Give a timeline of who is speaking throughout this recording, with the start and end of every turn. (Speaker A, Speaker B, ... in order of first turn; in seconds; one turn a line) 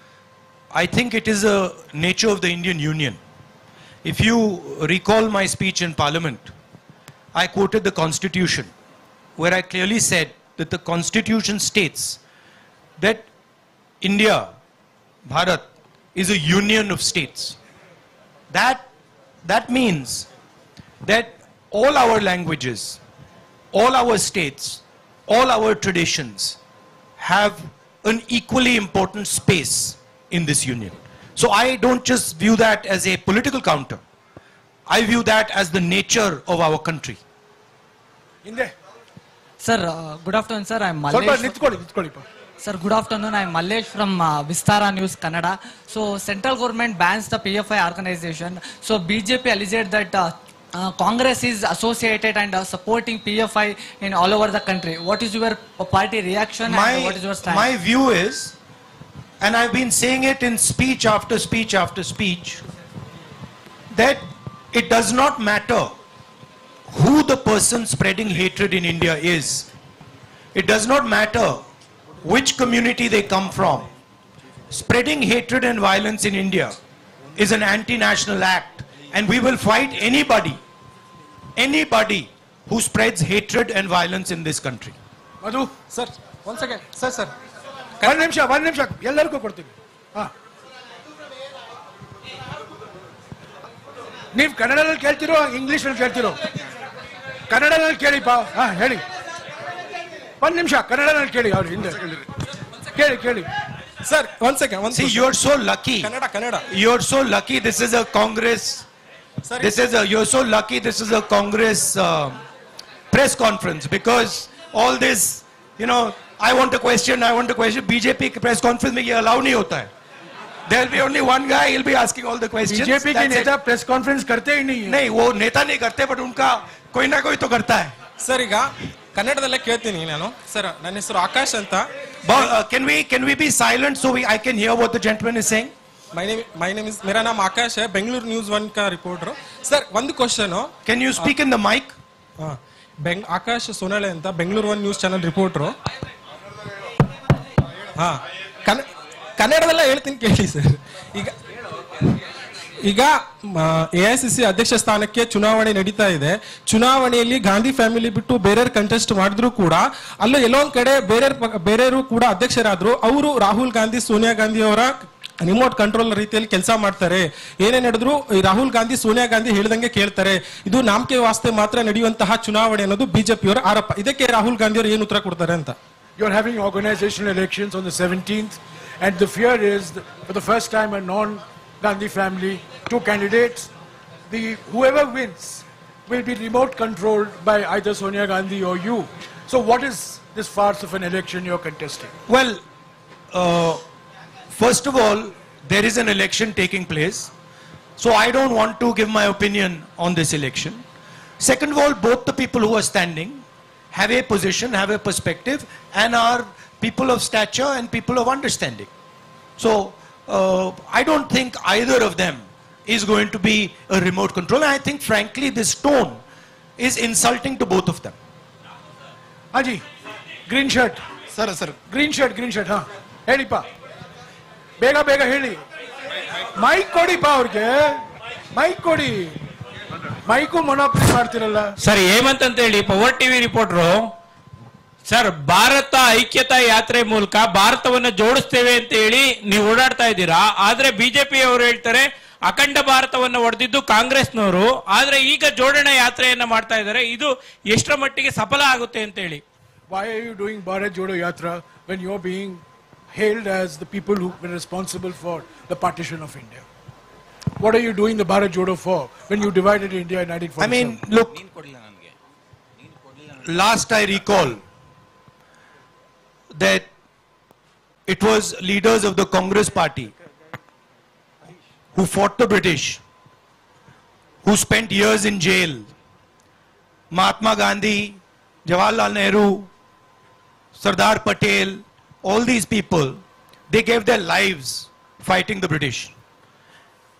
Speaker A: 0.7-3.2
Speaker A: 4.0-6.5
Speaker A: 7.3-8.7
Speaker A: 9.4-12.2
Speaker A: 13.0-13.3
Speaker A: 14.0-14.5
Speaker A: 15.3-17.6
Speaker A: 18.5-18.9
Speaker A: 19.4-20.3
Speaker A: 21.0-23.0
Speaker A: 23.7-26.6
Speaker A: 27.2-34.0
Speaker A: 34.9-37.2
Speaker B: 38.5-38.7
Speaker C: 39.6-41.6
Speaker B: 41.1-42.3
Speaker C: 42.6-57.7
Speaker A: 56.6-58.6
Speaker A: 59.4-62.6
Speaker A: 63.9-66.0
Speaker A: 66.9-69.7
Speaker A: 70.5-71.6
Speaker A: 72.2-73.9
Speaker A: 74.7-76.8
Speaker A: 77.4-80.6
Speaker A: 81.6-85.0
Speaker B: 85.4-85.7
Speaker D: 85.9-87.3
Speaker B: 88.0-90.3
Speaker B: 94.3-96.4
Speaker B: 97.5-99.0
Speaker B: 100.4-102.0
Speaker B: 103.0-103.5
Speaker D: 104.0-105.3
Speaker A: 104.9-106.1
Speaker D: 106.0-106.6
Speaker A: 106.7-108.8
Speaker D: 109.5-109.7
Speaker A: 109.6-112.4
Speaker A: 113.1-119.9
Speaker A: 120.7-123.5
Speaker B: 122.7-125.0
Speaker A: 124.9-128.0
Speaker D: 128.2-131.9
Speaker A: 132.2-135.7
Speaker D: 136.1-141.3
Speaker A: 140.8-141.9
Speaker D: 142.4-145.8
Speaker D: 148.0-148.9
Speaker D: 149.4-151.3
Speaker D: 152.8-175.8
Speaker B: 176.2-183.7
Speaker B: 184.3-192.1
Speaker A: 192.3-192.6
Speaker A: 193.3-193.8
Speaker A: 194.5-197.3
Speaker A: 198.0-200.8
Speaker A: 201.4-208.9
Speaker A: 209.6-216.2
Speaker A: 216.8-218.2
Speaker B: 219.5-219.8
Speaker B: 220.5-221.0
Speaker D: 221.4-221.7
Speaker B: 221.8-223.7
Speaker B: 224.8-225.6
Speaker B: 226.6-228.0
Speaker B: 228.5-229.4
Speaker B: 230.3-231.7
Speaker E: 231.8-234.1
Speaker E: 235.1-249.4
Speaker B: 249.9-256.6
Speaker B: 257.6-261.0
Speaker A: 260.6-261.4
Speaker A: 263.4-264.6
Speaker A: 266.5-266.9
Speaker A: 268.1-270.1
Speaker A: 271.9-273.0
Speaker A: 274.4-275.9
Speaker A: 277.1-279.7
Speaker A: 280.8-286.1